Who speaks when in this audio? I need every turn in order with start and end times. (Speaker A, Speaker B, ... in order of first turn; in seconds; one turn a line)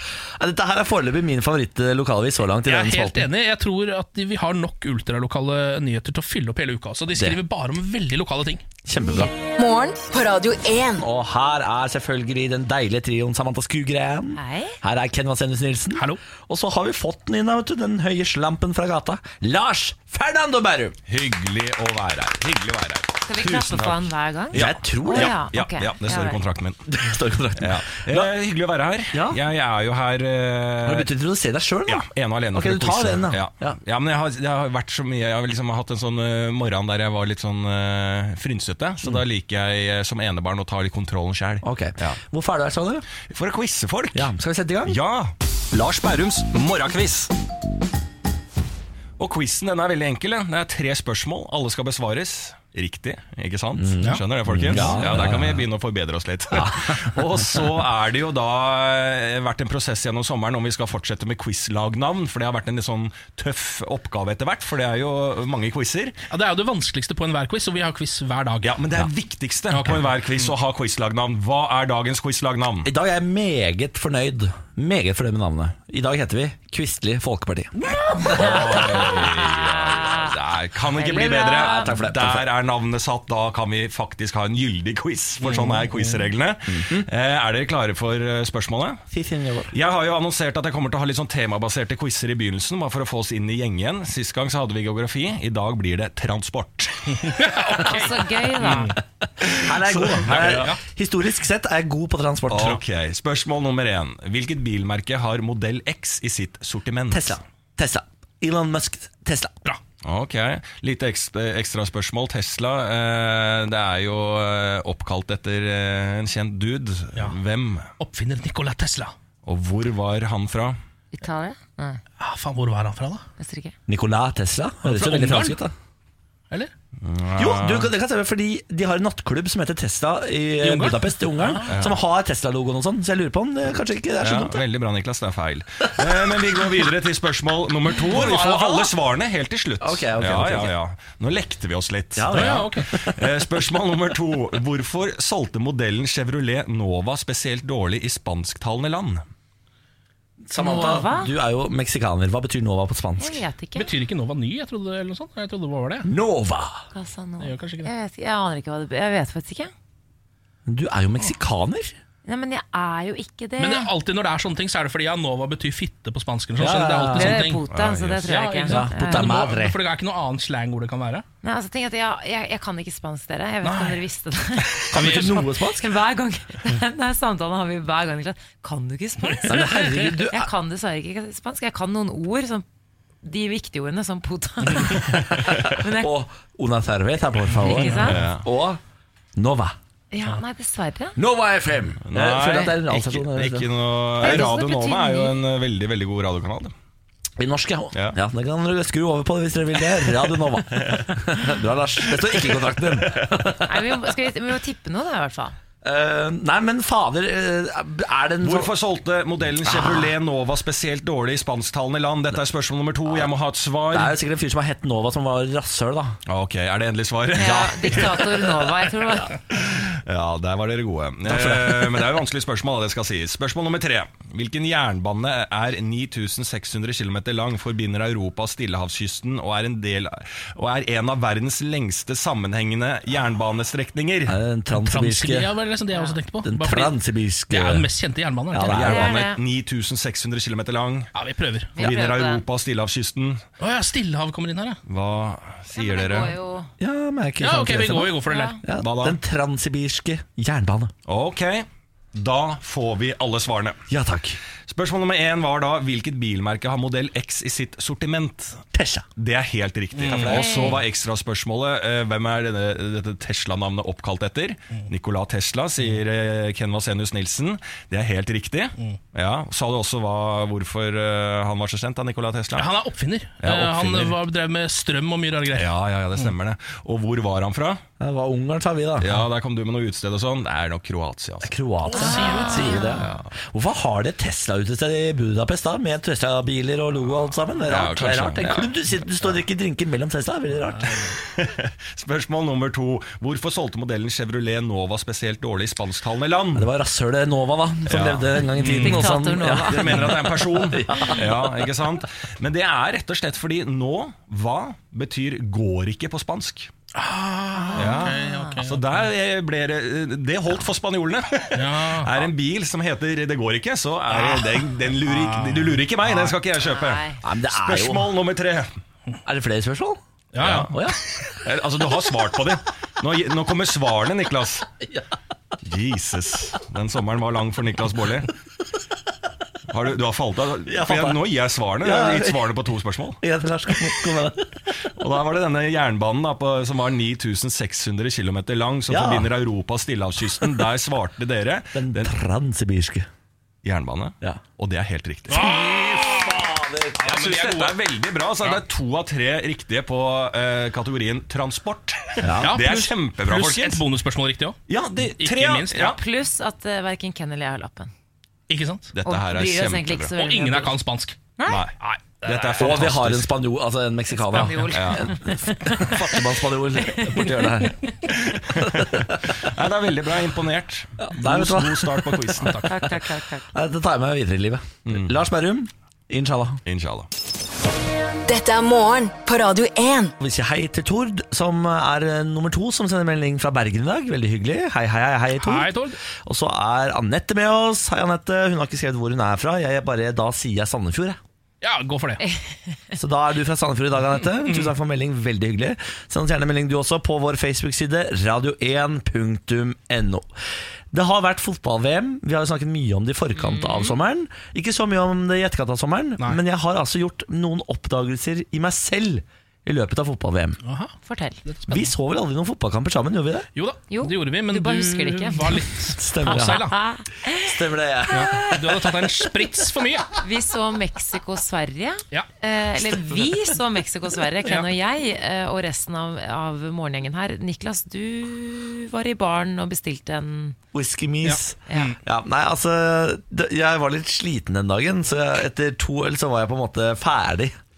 Speaker A: 0.4-3.3
Speaker B: 2.7-8.6
Speaker A: 8.9-9.3
Speaker C: 9.6-11.0
Speaker A: 11.0-21.0
Speaker D: 14.4-14.8
Speaker E: 21.1-26.8
Speaker D: 23.2-26.4
Speaker A: 24.5-25.5
Speaker A: 26.9-28.3
Speaker E: 27.6-31.1
Speaker A: 29.1-29.4
Speaker A: 30.8-33.8
Speaker E: 31.9-42.2
Speaker A: 41.6-43.1
Speaker E: 43.3-44.3
Speaker A: 44.1-45.0
Speaker E: 44.9-47.3
Speaker E: 49.2-66.2
Speaker A: 53.8-55.6
Speaker B: 54.0-55.0
Speaker A: 56.5-57.6
Speaker B: 66.3-68.8
Speaker E: 68.6-72.9
Speaker B: 69.7-70.5
Speaker A: 72.8-79.3
Speaker E: 78.3-89.0
Speaker D: 78.3-80.3
Speaker D: 80.9-81.9
Speaker A: 81.4-82.5
Speaker B: 85.4-86.1
Speaker A: 86.7-87.1
Speaker A: 89.1-89.7
Speaker E: 89.7-97.5
Speaker B: 97.3-98.9
Speaker D: 97.8-99.0
Speaker A: 99.4-102.8
Speaker E: 99.5-100.7
Speaker B: 100.4-100.8
Speaker E: 102.5-107.4
Speaker A: 107.1-109.5
Speaker E: 110.0-117.9
Speaker B: 118.0-119.1
Speaker E: 119.5-120.8
Speaker D: 121.1-122.0
Speaker B: 122.2-123.2
Speaker D: 123.4-123.7
Speaker A: 123.9-125.7
Speaker B: 124.8-125.6
Speaker E: 127.0-127.9
Speaker A: 127.4-134.6
Speaker B: 130.6-131.7
Speaker E: 131.7-131.9
Speaker E: 134.2-149.2
Speaker A: 136.0-136.7
Speaker A: 138.0-138.9
Speaker A: 139.8-140.7
Speaker A: 142.2-143.4
Speaker B: 142.3-142.9
Speaker A: 150.4-153.4
Speaker D: 150.6-151.3
Speaker D: 153.2-153.9
Speaker B: 153.8-156.1
Speaker A: 156.0-156.8
Speaker D: 156.9-159.7
Speaker B: 157.4-157.9
Speaker A: 160.7-161.9
Speaker D: 162.3-163.9
Speaker B: 163.6-167.6
Speaker A: 166.6-167.5
Speaker D: 167.1-169.4
Speaker E: 167.7-168.3
Speaker B: 168.3-171.2
Speaker A: 168.7-169.8
Speaker D: 171.4-182.6
Speaker B: 173.6-174.0
Speaker A: 174.9-175.9
Speaker B: 174.9-175.4
Speaker A: 179.5-180.5
Speaker D: 183.2-186.1
Speaker A: 184.7-188.8
Speaker D: 187.6-188.2
Speaker E: 188.0-188.4
Speaker A: 189.4-189.8
Speaker D: 190.1-191.2
Speaker A: 191.2-194.4
Speaker E: 192.1-196.7
Speaker D: 194.2-195.3
Speaker A: 197.4-203.9
Speaker E: 200.7-201.1
Speaker E: 202.0-203.4
Speaker D: 203.6-205.6
Speaker A: 205.8-208.7
Speaker E: 208.4-214.2
Speaker A: 209.6-210.1
Speaker A: 213.9-216.2
Speaker E: 216.3-218.8
Speaker D: 217.3-219.4
Speaker E: 219.5-234.3
Speaker A: 221.3-221.9
Speaker A: 234.3-235.5
Speaker B: 234.7-236.9
Speaker D: 235.9-236.2
Speaker A: 236.4-237.9
Speaker B: 237.5-238.9
Speaker A: 238.5-239.1
Speaker E: 238.7-241.1
Speaker D: 238.8-239.4
Speaker B: 241.1-241.8
Speaker E: 241.8-243.4
Speaker D: 241.8-242.4
Speaker B: 243.6-244.8
Speaker E: 244.9-246.4
Speaker D: 245.7-246.7
Speaker A: 246.8-250.9
Speaker B: 247.4-248.6
Speaker D: 248.3-248.6
Speaker E: 248.8-249.2
Speaker E: 251.1-253.8
Speaker A: 253.9-254.4
Speaker E: 254.7-258.6
Speaker A: 258.7-259.1
Speaker E: 259.2-272.7
Speaker B: 259.9-260.5
Speaker D: 260.3-260.8
Speaker B: 272.6-276.3
Speaker E: 273.4-274.2
Speaker E: 275.5-277.8
Speaker A: 278.0-279.3
Speaker E: 279.0-281.6
Speaker A: 281.4-291.1
Speaker B: 281.9-282.9
Speaker D: 281.9-283.1
Speaker E: 283.0-283.2
Speaker E: 287.7-289.3
Speaker E: 291.2-296.7
Speaker A: 296.6-301.7
Speaker E: 297.9-306.7
Speaker D: 298.6-300.2
Speaker D: 300.9-301.2
Speaker B: 306.9-309.1
Speaker D: 307.6-308.6
Speaker E: 307.8-318.7
Speaker B: 311.5-312.3
Speaker B: 314.1-316.4
Speaker D: 316.6-317.2
Speaker A: 317.2-318.1
Speaker A: 319.2-321.0
Speaker B: 320.3-321.3
Speaker E: 320.4-320.7
Speaker E: 321.4-324.7
Speaker E: 325.6-328.3
Speaker E: 329.7-333.2
Speaker A: 330.7-331.3
Speaker A: 331.8-332.7
Speaker A: 333.2-334.7
Speaker E: 335.0-342.1
Speaker A: 338.9-339.3
Speaker A: 340.4-340.6
Speaker A: 341.7-343.1
Speaker E: 343.6-345.4
Speaker A: 345.3-347.1
Speaker B: 345.3-347.8
Speaker E: 347.0-353.8
Speaker A: 352.2-352.6
Speaker B: 352.4-354.6
Speaker E: 354.7-356.0
Speaker B: 355.2-355.9
Speaker D: 355.8-357.9
Speaker B: 358.5-358.9
Speaker E: 358.9-360.1
Speaker D: 359.1-360.8
Speaker B: 360.2-363.1
Speaker E: 361.4-363.3
Speaker A: 362.6-367.8
Speaker D: 364.2-365.9
Speaker E: 364.7-365.1
Speaker D: 366.9-367.3
Speaker E: 368.1-372.7
Speaker A: 368.7-369.1
Speaker A: 371.0-372.9
Speaker B: 372.4-372.7
Speaker D: 372.6-373.5
Speaker A: 373.5-376.6
Speaker E: 374.9-375.1
Speaker E: 376.7-377.1
Speaker C: 378.3-380.1
Speaker A: 380.2-391.2
Speaker B: 385.4-386.0
Speaker B: 391.6-392.2
Speaker A: 392.9-400.3
Speaker B: 394.4-394.7
Speaker A: 400.9-410.6
Speaker D: 403.4-403.9
Speaker B: 410.6-410.9
Speaker D: 411.1-411.4
Speaker B: 411.4-411.9
Speaker A: 411.7-413.5
Speaker B: 413.6-416.8
Speaker D: 413.9-415.7
Speaker A: 415.9-416.7
Speaker D: 416.3-417.6
Speaker A: 417.4-418.5
Speaker D: 418.1-418.6
Speaker B: 418.1-420.1
Speaker D: 420.2-430.6
Speaker A: 430.7-437.6
Speaker B: 431.2-432.0
Speaker D: 431.7-431.9